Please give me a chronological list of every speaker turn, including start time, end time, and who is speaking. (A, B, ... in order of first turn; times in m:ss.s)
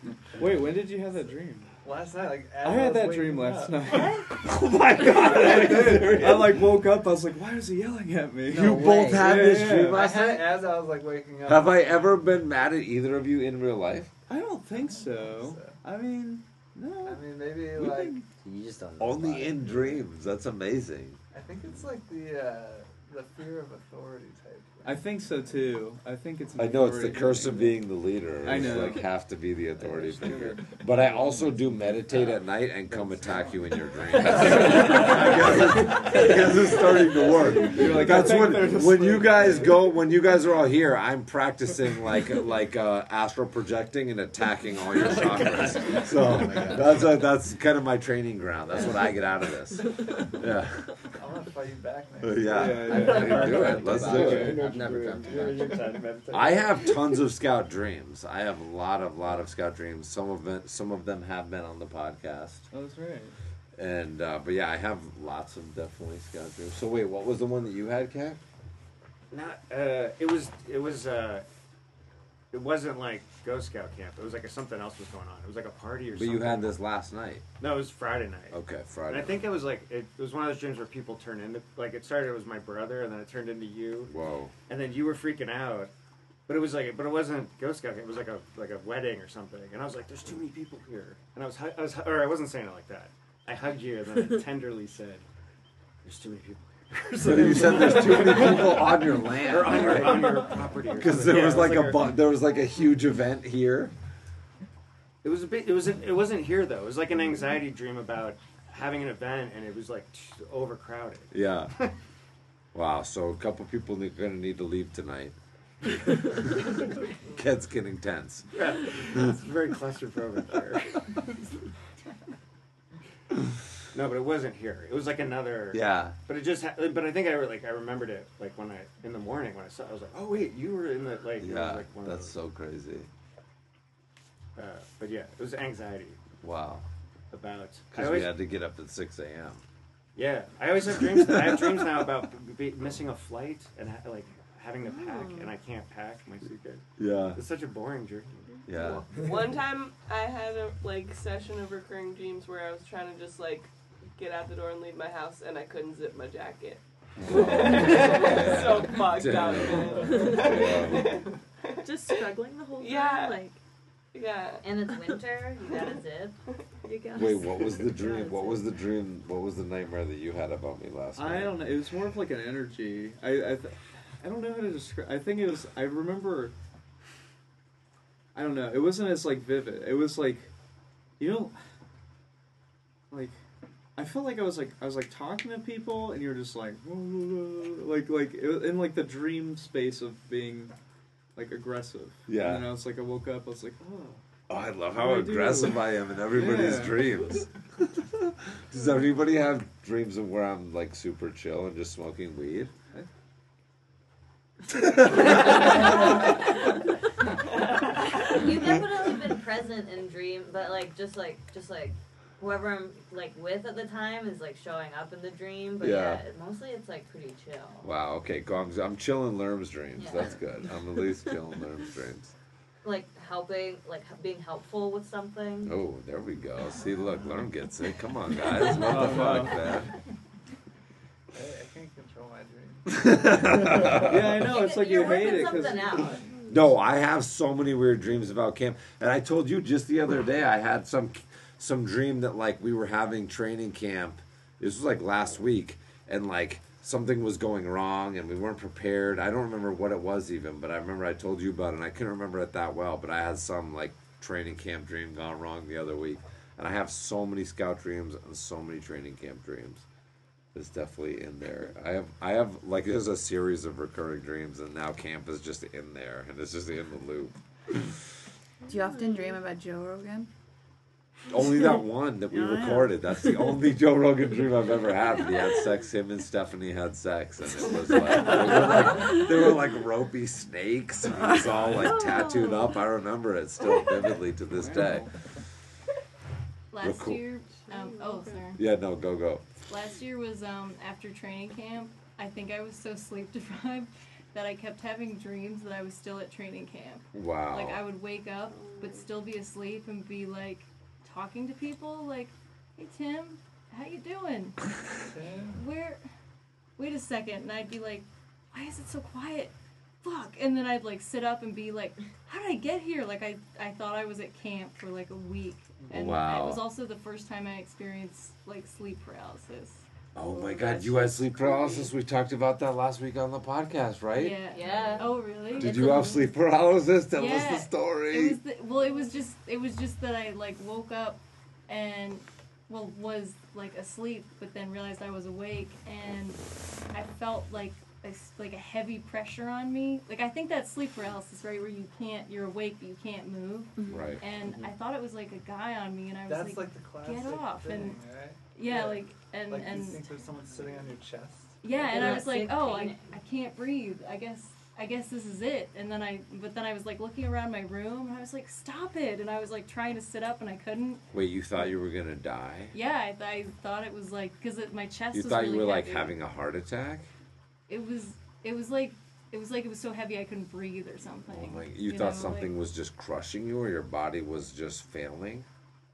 0:00.3-0:01.7 A
0:01.8-0:04.3 B
0:02.6-0:04.3 A
0:04.3-0:06.6 C
0:05.0-0:10.0 A
0:08.5-0:09.5 D
0:08.5-0:10.5 C
0:09.8-0:12.2 B
0:11.5-0:14.1 C
0:14.3-0:18.2 A
0:14.7-0:15.8 B
0:17.0-0:18.2 B
0:18.4-0:20.0 D
0:19.0-0:21.2 C
0:21.3-0:25.8 B
0:24.8-0:27.8 A
0:26.6-0:51.1 C
0:28.4-0:29.1 A
0:29.8-0:30.6 D
0:30.3-0:30.6 A
0:31.8-0:32.2 D
0:33.2-0:34.8 B
0:37.2-0:39.8 A
0:45.0-0:47.1 D
0:51.2-0:54.2 B
0:52.2-0:54.6 C
0:52.5-0:54.7 A
0:52.8-0:56.0 D
0:54.0-0:56.9 E
0:55.6-0:55.9 B
0:56.3-1:02.7 C
1:02.7-1:03.4 A
1:03.8-1:08.4 C
1:09.3-1:11.4 E
1:12.5-1:16.8 E
1:16.2-1:17.5 C
1:17.6-1:24.1 E
1:18.5-1:19.4 C
1:24.1-1:24.5 C
1:24.7-1:25.9 E
1:26.5-1:35.2 E
1:36.0-1:42.2 E
1:37.2-1:43.9 C
1:45.2-1:52.0 E
1:51.3-1:51.8 C
1:52.7-1:55.4 C
1:57.2-1:58.5 C
1:58.5-2:01.4 E
2:03.9-2:12.4 E
2:05.7-2:06.2 C
2:11.4-2:13.1 C
2:14.6-2:16.2 E
2:16.4-2:16.8 C
2:17.3-2:18.3 E
2:17.9-2:19.6 C
2:20.2-2:28.4 E
2:21.2-2:21.6 C
2:24.8-2:25.5 F
2:27.0-2:27.4 C
2:28.6-2:29.0 F
2:28.7-2:29.1 C
2:28.9-2:43.5 G
2:37.2-2:41.2 C
2:40.0-2:40.9 F
2:41.8-2:43.6 F
2:44.1-2:44.6 G
2:44.6-2:46.4 H
2:46.8-2:48.8 F
2:47.2-2:51.6 C
2:51.2-2:56.5 A
2:58.4-3:00.5 A
3:01.2-3:01.6 A
3:03.1-3:03.4 A
3:04.0-3:10.8 A
3:11.4-3:14.2 A
3:12.3-3:12.7 C
3:14.5-3:22.7 C
3:14.9-3:17.1 A
3:24.8-3:25.4 C
3:25.3-3:26.3 H
3:27.6-3:37.9 H
3:35.8-3:36.2 C
3:37.8-3:42.3 C
3:40.0-3:40.4 H
3:42.8-3:45.8 H
3:45.6-3:49.9 C
3:48.7-3:49.7 A
3:51.3-3:53.6 B
3:52.9-3:54.5 C
3:53.9-3:56.1 A
3:54.3-3:56.3 H
3:55.9-3:56.3 F
3:56.5-4:19.8 C
4:20.5-4:28.0 C
4:28.7-4:30.3 I
4:28.7-4:29.4 F
4:31.3-4:45.1 C
4:32.3-4:32.8 I
4:38.2-4:39.1 F
4:41.7-4:42.9 F
4:44.5-4:45.1 A
4:46.7-4:48.6 J
4:46.8-4:47.3 C
4:47.5-4:48.5 F
4:48.6-4:49.4 C
4:49.7-5:06.0 J
4:57.1-4:57.8 C
4:58.5-4:59.1 F
5:05.1-5:05.6 B
5:06.8-5:19.8 J
5:15.9-5:16.6 C
5:20.2-5:24.4 C
5:20.7-5:21.2 H
5:24.1-5:26.3 J
5:24.5-5:25.3 H
5:24.6-5:25.0 F
5:25.5-5:28.4 C
5:27.1-5:50.2 J
5:43.9-5:44.2 C
5:46.3-5:51.6 B
5:51.6-6:01.0 J
5:51.7-5:53.2 H
6:01.1-6:02.7 C
6:02.7-6:06.2 J
6:05.1-6:07.1 C
6:07.7-6:12.6 J
6:11.3-6:15.5 C